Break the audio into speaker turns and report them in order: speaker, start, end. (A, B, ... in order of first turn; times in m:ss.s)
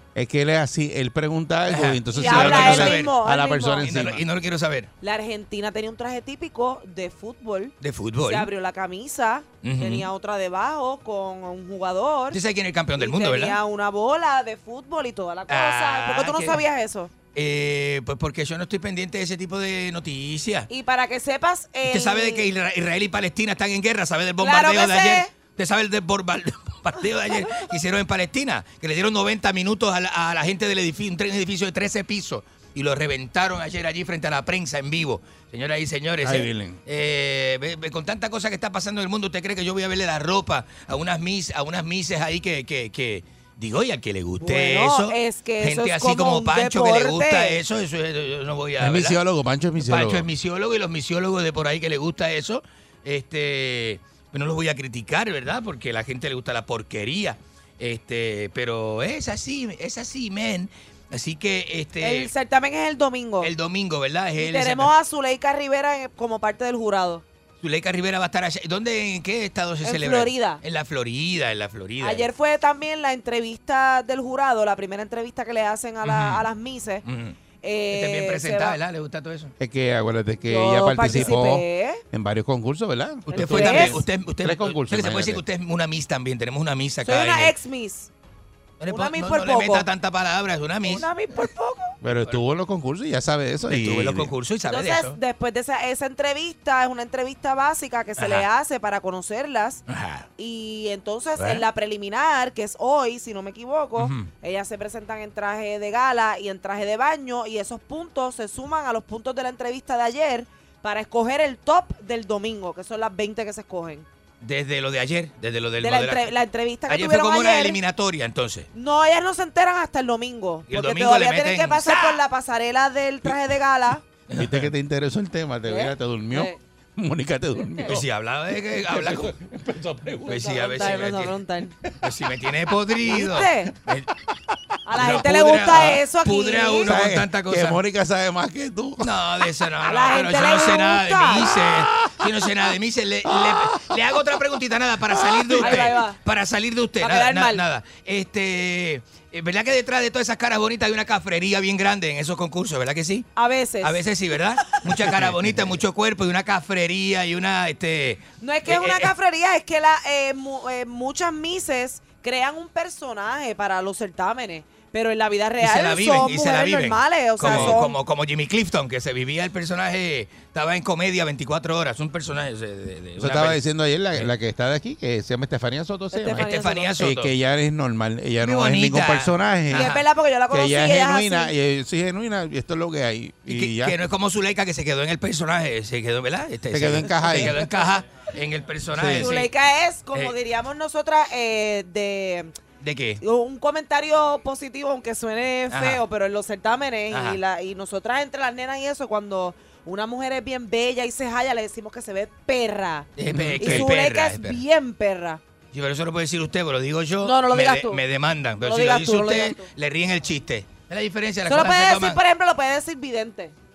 0:00.1-0:04.2 A
0:01.7-0:03.2 B
0:02.1-0:03.9 C
0:03.8-0:04.9 B
0:05.0-0:12.4 C
0:07.8-0:08.5 B
0:09.6-0:10.1 B
0:12.3-0:13.6 B
0:13.0-0:17.1 C
0:15.5-0:16.6 B
0:17.3-0:20.7 B
0:20.7-0:22.4 C
0:21.9-0:49.2 B
0:24.4-0:25.3 C
0:36.2-0:36.8 A
0:44.4-0:47.6 C
0:48.8-0:50.2 A
0:49.8-1:02.3 B
1:02.0-1:03.5 C
1:03.4-1:04.9 B
1:04.4-1:07.2 C
1:07.6-1:12.3 B
1:09.8-1:10.6 C
1:12.0-1:17.0 C
1:16.0-1:16.4 B
1:17.0-1:17.4 B
1:17.6-1:18.8 C
1:17.9-1:19.5 B
1:19.6-1:25.4 A
1:20.5-1:22.0 C
1:21.0-1:21.3 B
1:23.3-1:24.0 C
1:23.3-1:27.5 B
1:27.0-1:28.1 C
1:28.8-1:31.0 B
1:28.9-1:29.9 C
1:30.8-1:32.0 C
1:32.0-1:34.3 A
1:33.7-1:35.2 B
1:34.7-1:39.8 C
1:38.2-1:38.4 B
1:39.9-1:40.2 B
1:40.4-1:54.0 C
1:44.0-1:44.3 A
1:54.4-1:56.3 B
1:55.8-1:57.8 C
1:56.9-1:58.7 B
1:58.7-2:04.0 C
2:00.7-2:02.2 B
2:04.3-2:04.7 B
2:04.4-2:08.0 A
2:05.7-2:06.6 C
2:07.6-2:08.0 C
2:07.8-2:09.3 B
2:08.9-2:10.4 A
2:10.2-2:11.8 C
2:10.3-2:11.3 B
2:12.0-2:14.1 B
2:13.0-2:13.7 C
2:14.8-2:17.0 C
2:15.0-2:17.8 B
2:16.8-2:19.2 A
2:19.0-2:33.3 B
2:19.8-2:21.5 C
2:21.5-2:22.3 A
2:23.3-2:24.0 A
2:25.1-2:25.9 A
2:25.6-2:26.2 C
2:27.0-2:27.6 C
2:33.4-2:34.0 C
2:33.8-2:39.1 B
2:35.0-2:35.7 A
2:38.4-2:48.0 C
2:45.6-2:53.6 B
2:47.4-2:47.8 A
2:53.2-2:59.9 A
2:56.1-2:57.0 C
2:56.3-2:57.3 B
2:58.4-3:00.0 B
2:59.7-3:01.5 C
3:00.5-3:03.9 A
3:03.5-3:09.5 B
3:06.7-3:07.6 A
3:07.2-3:07.8 C
3:08.9-3:09.2 A
3:09.1-3:12.6 C
3:12.8-3:13.2 B
3:13.2-3:25.4 C
3:15.7-3:16.0 B
3:17.1-3:17.4 B
3:23.2-3:24.6 B
3:23.3-3:23.9 A
3:25.7-3:32.2 B
3:27.2-3:28.0 C
3:28.6-3:29.7 C
3:31.4-3:33.5 C